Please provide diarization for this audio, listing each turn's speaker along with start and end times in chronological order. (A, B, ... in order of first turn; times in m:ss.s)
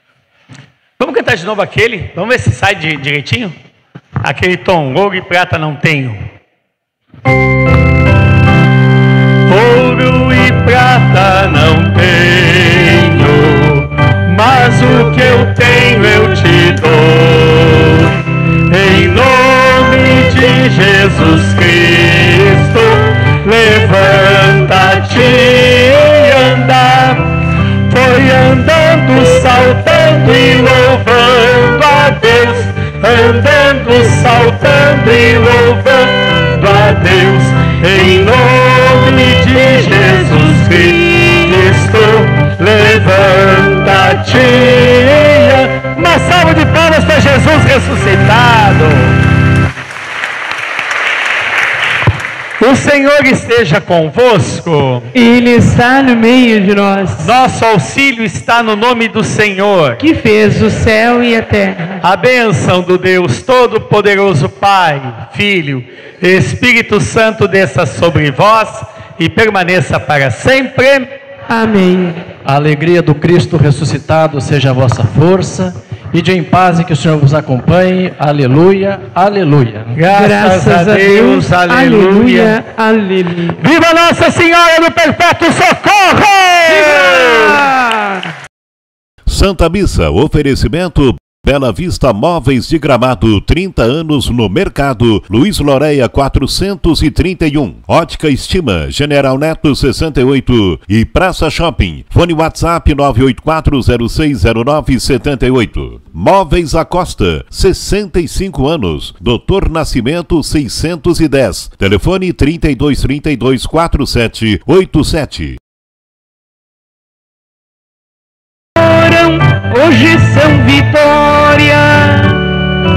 0:01.0-0:03.5 A
0:04.2-0:06.2 A
0:09.5-0:49.2 A
0:39.4-0:41.6 B
0:52.6-0:55.1 A
0:55.1-0:57.3 B
0:57.2-1:00.0 A
1:00.0-1:02.0 B
1:02.0-1:11.1 A
1:11.5-1:12.3 B
1:12.4-1:20.0 C
1:19.9-1:22.6 A
1:20.1-1:23.6 B
1:23.6-1:27.7 A
1:26.7-1:28.3 B
1:29.3-1:55.6 D
1:58.8-2:02.4 B